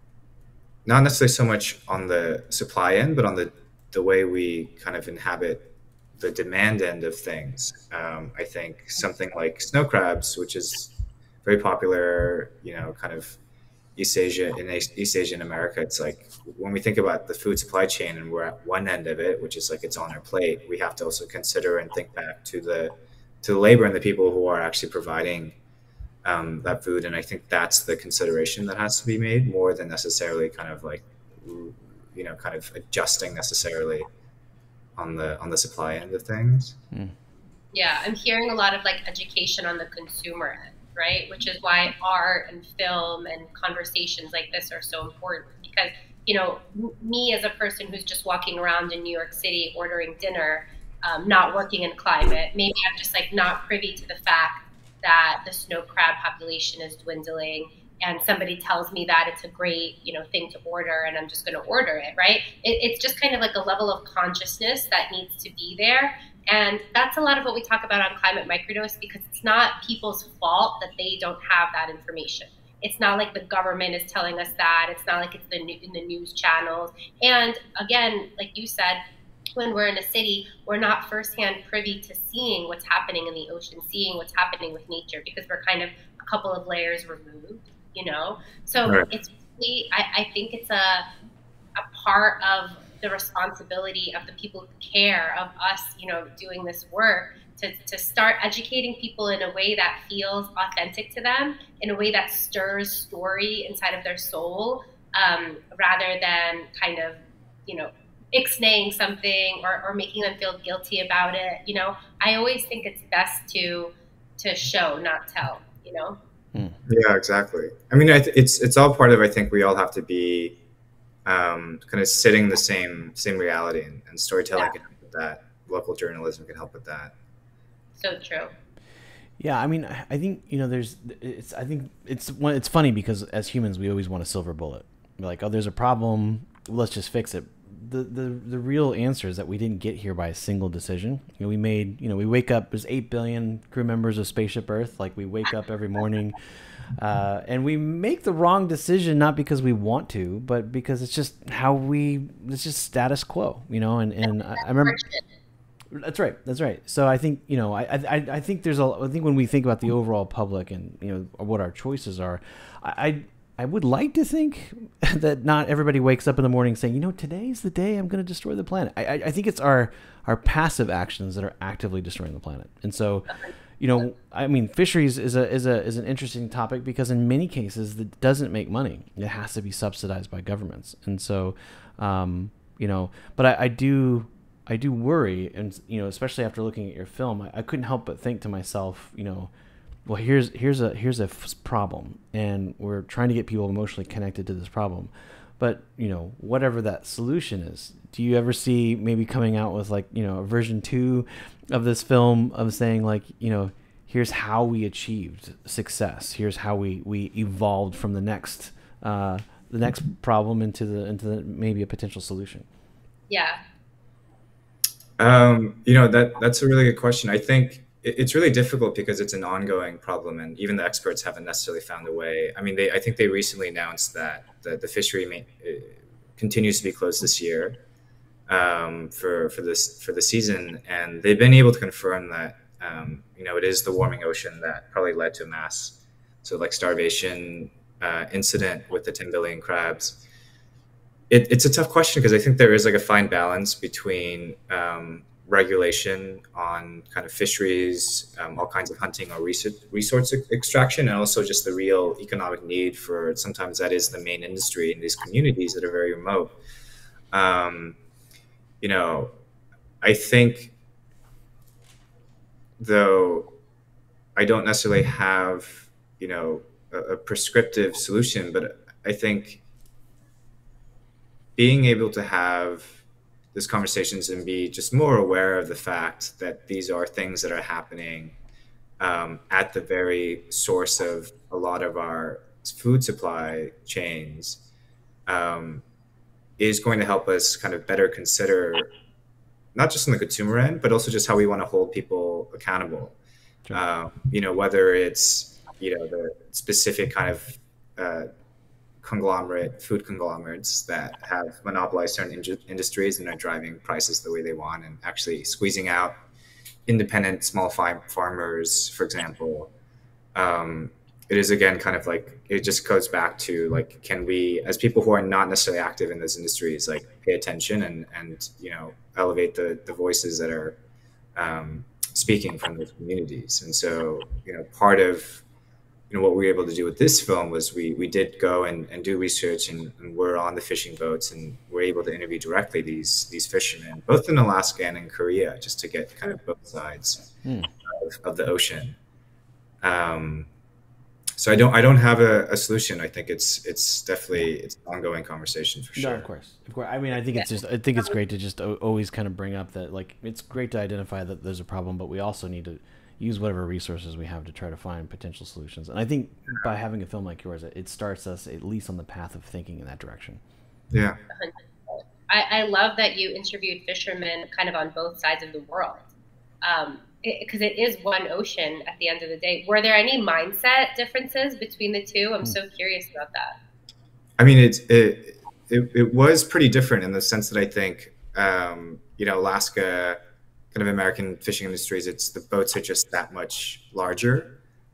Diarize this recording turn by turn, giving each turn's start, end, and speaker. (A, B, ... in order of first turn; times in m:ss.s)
0:00.8-0:05.6 A
0:06.2-0:13.4 A
0:14.0-0:25.6 A
0:26.2-0:34.1 A
0:35.0-0:36.8 A
0:37.7-1:19.0 B
1:19.6-1:31.1 B
1:28.8-1:29.1 A
1:31.8-1:56.2 B
1:56.9-2:00.5 A
2:01.2-2:07.1 A
2:08.0-2:08.5 B
2:09.4-2:26.4 C
2:27.0-2:35.0 C
2:34.6-2:35.2 B
2:35.9-3:09.5 C
3:10.1-3:32.7 C
3:33.3-3:33.6 B
3:35.2-3:47.8 A
3:48.5-4:00.2 A
4:01.3-4:16.5 A
4:17.3-4:18.0 A
4:18.8-4:19.3 A
4:20.0-4:20.7 A
4:22.8-4:23.5 A
4:24.4-4:29.6 A
4:31.6-4:33.0 A
4:33.5-4:38.4 A
4:39.0-4:44.6 A
4:45.3-4:45.8 A
4:46.6-4:48.9 A
4:49.8-4:53.2 A
4:53.7-4:58.3 A
4:59.0-5:06.2 A
5:06.9-5:09.7 A
5:10.4-5:20.8 A
5:21.4-5:25.4 A
5:26.1-5:37.3 A
5:37.4-5:37.7 C
5:37.9-5:39.0 A
5:39.8-5:40.5 A
5:41.4-5:46.3 A
5:46.0-6:00.4 C
6:00.9-6:01.2 A
6:01.3-6:06.1 B
6:06.6-6:13.6 B
6:14.4-6:20.2 A
6:20.7-6:24.5 A